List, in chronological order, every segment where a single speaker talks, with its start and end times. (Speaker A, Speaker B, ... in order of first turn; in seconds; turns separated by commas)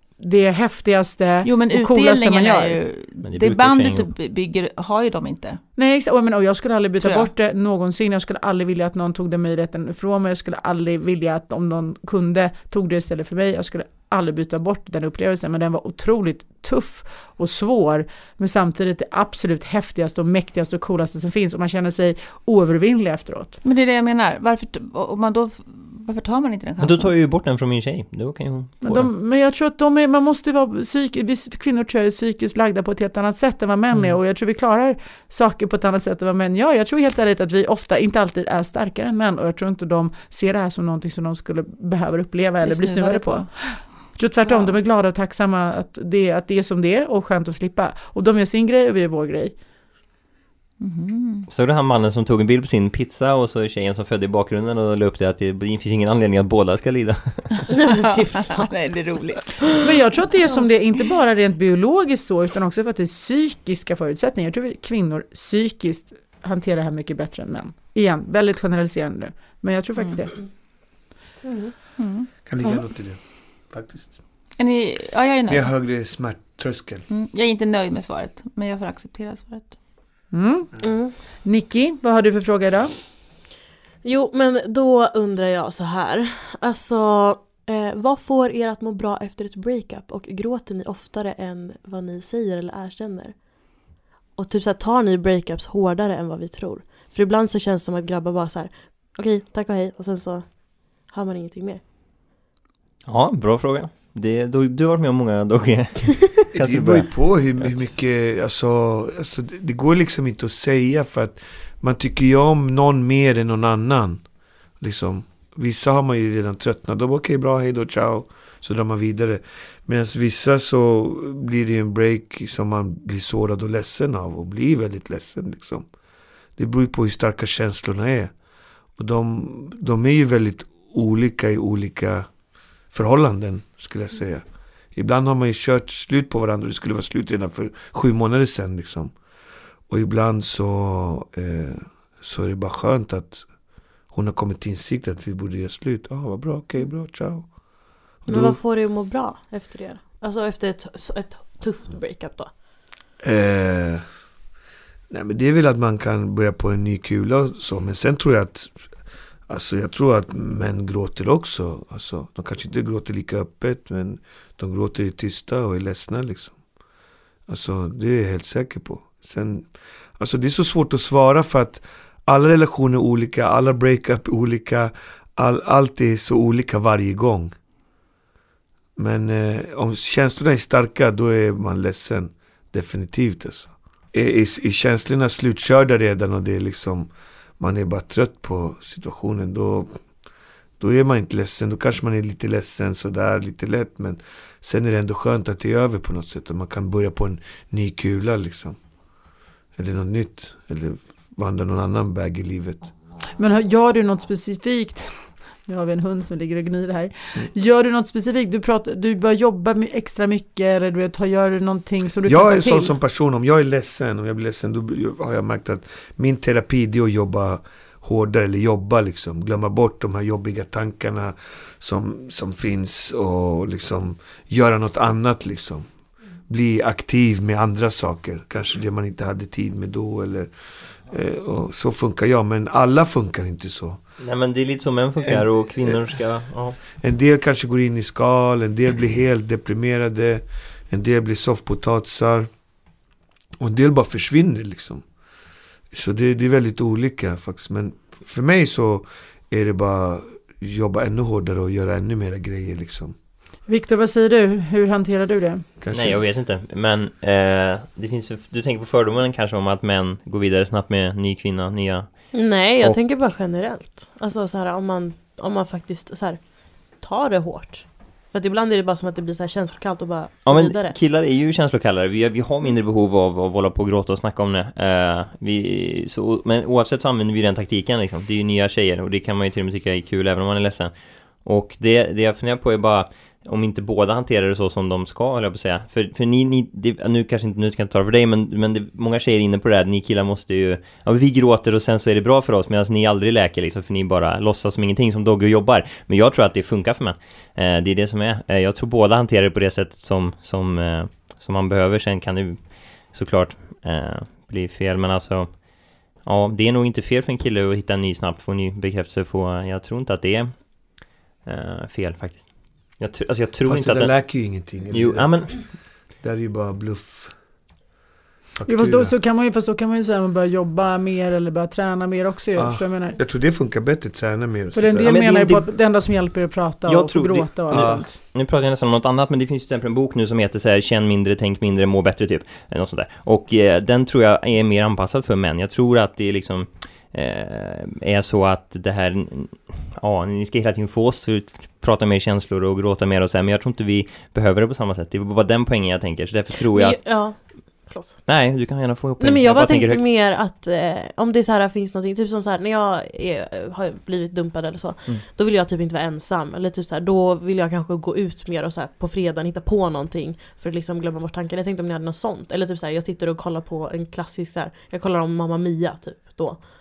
Speaker A: 0.2-2.8, Speaker B: 1.4-5.6, Speaker C: 3.2-4.1, Speaker A: 5.8-23.6, Speaker B: 7.0-7.3, Speaker B: 23.6-27.1, Speaker C: 26.8-29.1, Speaker A: 28.8-49.5, Speaker B: 42.6-43.5, Speaker B: 44.4-44.7, Speaker B: 50.8-51.5, Speaker C: 51.5-57.7, Speaker D: 57.7-58.7, Speaker B: 57.9-59.5, Speaker A: 59.8-70.4, Speaker D: 71.4-71.7, Speaker B: 72.0-72.3, Speaker E: 72.5-74.1, Speaker B: 74.6-75.7, Speaker E: 75.5-77.0, Speaker B: 77.1-79.7, Speaker A: 80.3-80.7, Speaker D: 80.8-81.1, Speaker A: 81.4-82.9, Speaker D: 84.0-93.4, Speaker D: 94.4-100.5, Speaker D: 101.0-101.8, Speaker C: 103.1-107.1, Speaker E: 106.5-114.2, Speaker E: 114.8-125.9, Speaker E: 126.6-128.3, Speaker E: 129.0-132.3, Speaker E: 132.9-134.4, Speaker E: 134.9-139.1, Speaker E: 139.9-143.5, Speaker E: 144.1-147.5, Speaker E: 148.2-148.6, Speaker D: 148.3-152.5, Speaker E: 153.2-154.0, Speaker E: 155.1-158.7, Speaker E: 159.5-166.6, Speaker E: 167.5-177.5, Speaker E: 179.0-189.9, Speaker E: 190.8-198.8, Speaker E: 199.8-202.9, Speaker A: 203.4-205.1, Speaker A: 205.7-212.9, Speaker E: 212.2-225.9, Speaker E: 226.5-230.5, Speaker E: 231.1-234.0, Speaker C: 234.2-236.8, Speaker E: 236.9-242.5, Speaker E: 243.6-245.0, Speaker E: 245.9-253.2, Speaker A: 253.7-255.7, Speaker E: 255.8-256.2, Speaker C: 255.9-263.0, Speaker D: 262.3-266.4, Speaker D: 267.0-271.0, Speaker C: 270.5-314.1, Speaker E: 313.7-315.4, Speaker C: 314.9-315.7, Speaker E: 316.2-317.3, Speaker E: 318.6-319.1, Speaker A: 318.7-323.2, Speaker E: 322.6-325.1, Speaker A: 324.7-328.2, Speaker C: 325.0-325.7, Speaker C: 326.9-347.0, Speaker E: 327.7-328.1, Speaker D: 346.6-348.3, Speaker C: 348.2-350.0, Speaker D: 349.2-366.6